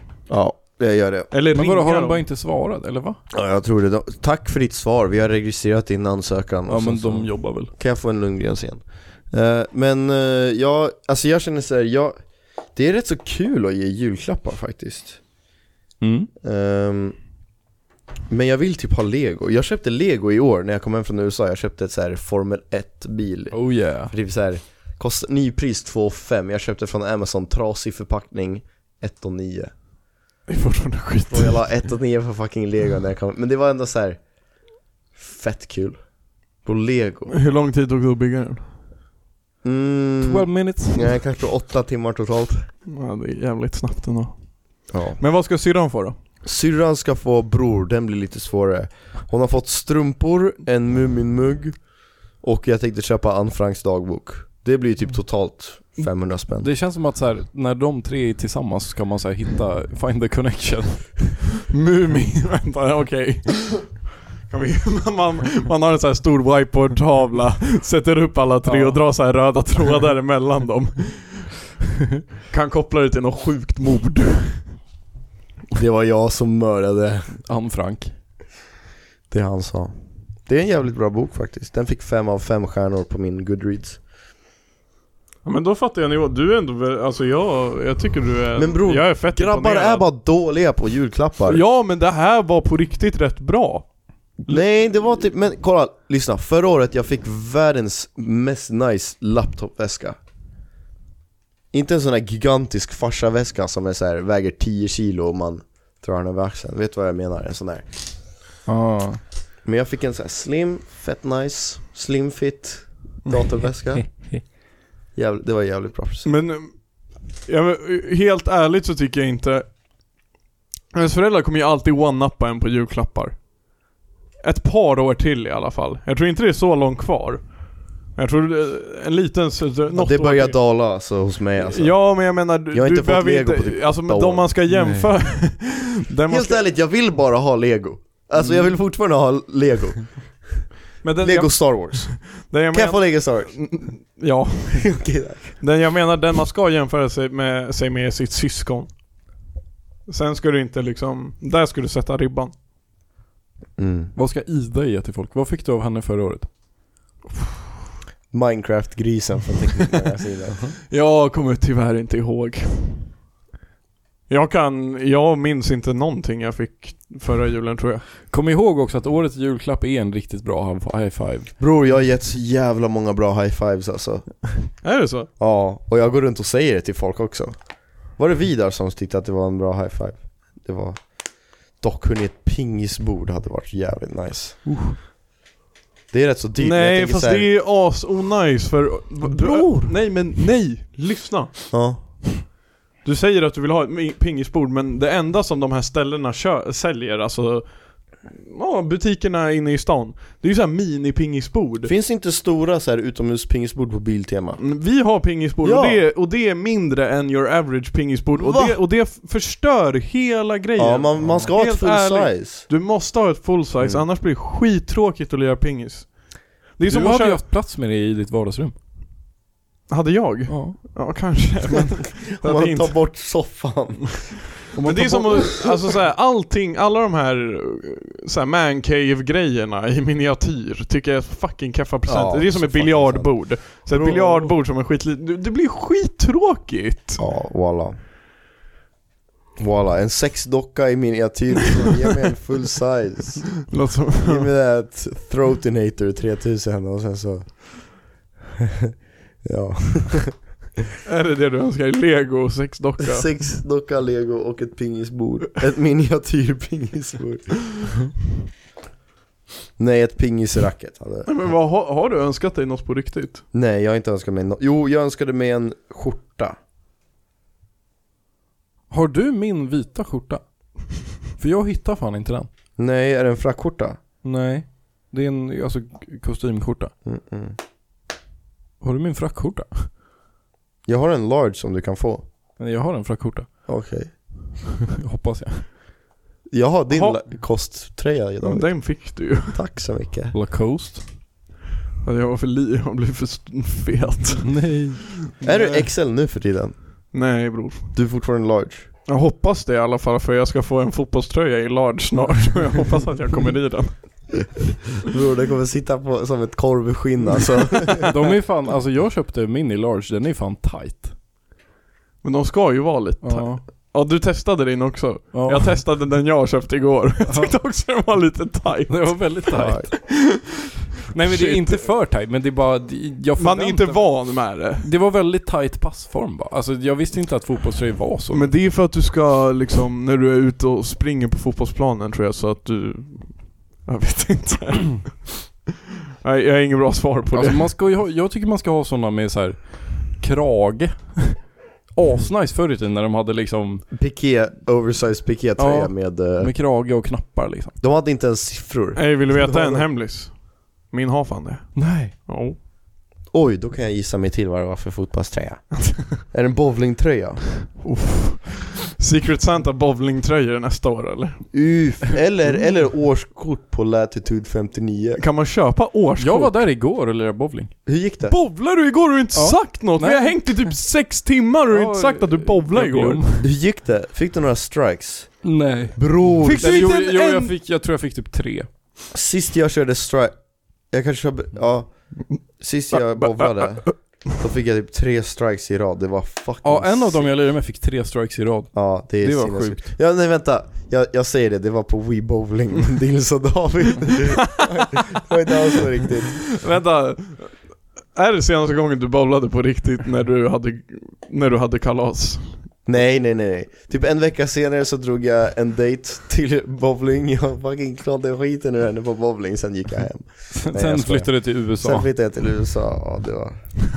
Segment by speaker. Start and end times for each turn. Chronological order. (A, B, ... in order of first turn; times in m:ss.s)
0:00.3-0:01.3 A
0:01.3-0:02.2 B
0:01.5-0:03.2 C
0:03.3-0:12.2 A
0:06.7-0:07.7 C
0:12.7-0:15.2 A
0:16.0-0:16.3 C
0:16.4-0:17.2 A
0:18.3-0:29.7 A
0:23.5-0:24.1 C
0:30.5-0:31.6 B
0:31.3-0:34.2 A
0:35.2-0:36.0 A
0:36.6-0:37.3 A
0:37.3-0:38.7 B
0:39.6-0:42.7 A
0:40.2-0:41.2 C
0:42.9-0:46.2 B
0:44.9-0:45.2 A
0:46.4-0:56.7 A
0:56.6-1:01.4 C
1:01.7-1:11.6 B
1:08.6-1:09.0 C
1:12.5-1:14.7 B
1:15.8-1:17.3 A
1:17.4-1:18.1 C
1:19.3-1:24.0 A
1:25.4-1:30.1 B
1:28.6-1:31.6 A
1:31.5-1:33.9 B
1:34.4-1:40.2 A
1:41.7-1:47.9 A
1:48.7-1:49.2 C
1:49.6-1:54.3 A
1:55.2-1:56.3 A
1:56.2-1:59.7 B
2:00.9-2:03.6 B
2:04.4-2:10.6 B
2:09.9-2:14.5 A
2:11.6-2:16.6 B
2:14.7-2:15.1 C
2:16.3-2:20.3 A
2:18.4-2:18.7 B
2:21.0-2:25.0 B
2:21.2-2:23.8 A
2:24.8-2:25.6 A
2:25.6-2:28.9 B
2:30.1-2:32.5 B
2:33.8-2:34.1 A
2:34.2-2:36.5 C
2:38.3-2:40.7 A
2:40.9-2:43.1 B
2:44.3-2:48.0 B
2:48.3-2:51.5 C
2:51.6-2:54.5 A
2:54.8-2:55.3 B
2:55.4-3:01.1 A
3:01.8-3:04.6 A
3:04.6-3:05.0 C
3:06.1-3:07.5 A
3:06.6-3:11.8 B
3:09.3-3:09.9 C
3:11.7-3:12.3 A
3:13.0-3:21.9 B
3:21.9-3:24.6 A
3:24.6-3:37.4 B
3:25.6-3:26.0 A
3:28.4-3:28.8 A
3:30.8-3:32.6 A
3:31.2-3:31.5 C
3:36.9-3:38.7 C
3:39.9-3:43.2 B
3:40.5-3:40.8 C
3:42.4-3:44.7 A
3:44.8-3:45.6 C
3:44.8-3:57.2 B
3:52.1-3:54.5 A
3:57.2-3:58.0 A
3:59.6-4:03.6 A
4:03.7-4:04.5 B
4:04.2-4:08.1 A
4:09.4-4:10.6 A
4:11.1-4:13.3 B
4:13.1-4:17.8 A
4:19.8-4:21.5 A
4:21.3-4:23.4 B
4:23.5-4:26.6 A
4:28.9-4:30.4 C
4:31.3-4:32.5 C
4:32.8-4:34.0 A
4:34.2-4:36.9 C
4:37.0-4:37.6 A
4:38.8-4:39.9 C
4:40.9-4:42.2 A
4:42.6-4:43.5 C
4:43.7-4:44.1 A
4:45.0-4:45.7 C
4:46.5-4:50.4 A
4:46.9-4:47.2 B
4:48.4-4:49.6 B
4:50.3-4:51.0 C
4:52.0-4:54.8 B
4:54.4-4:55.1 C
4:55.4-4:55.9 B
4:55.4-4:56.8 A
4:57.1-4:58.0 B
4:57.9-4:58.9 A
4:59.1-5:04.4 B
5:05.1-5:08.1 A
5:08.0-5:11.1 C
5:12.2-5:20.4 B
5:13.2-5:13.6 C
5:15.3-5:15.8 C
5:17.3-5:17.6 C
5:18.9-5:20.0 C
5:19.5-5:19.9 A
5:21.1-5:28.6 C
5:21.2-5:21.9 B
5:23.4-5:24.8 B
5:28.3-5:35.5 B
5:36.2-5:37.7 B
5:37.3-5:43.9 C
5:43.9-5:46.5 A
5:45.6-5:47.8 C
5:47.8-5:49.8 A
5:49.0-5:52.6 B
5:51.8-5:52.1 C
5:53.3-5:57.7 A
5:57.8-6:01.4 B
6:01.5-6:05.2 A
6:05.2-6:06.6 B
6:06.2-6:07.7 C
6:07.9-6:08.4 A
6:08.3-6:13.2 B
6:09.3-6:10.8 C
6:11.7-6:13.5 C
6:13.4-6:16.9 A
6:15.4-6:18.7 C
6:16.4-6:17.5 B
6:19.1-6:27.3 A
6:22.9-6:23.9 B
6:26.6-6:30.0 C
6:28.7-6:36.6 A
6:36.6-6:42.6 B
6:42.9-6:53.6 A
6:50.5-6:52.1 C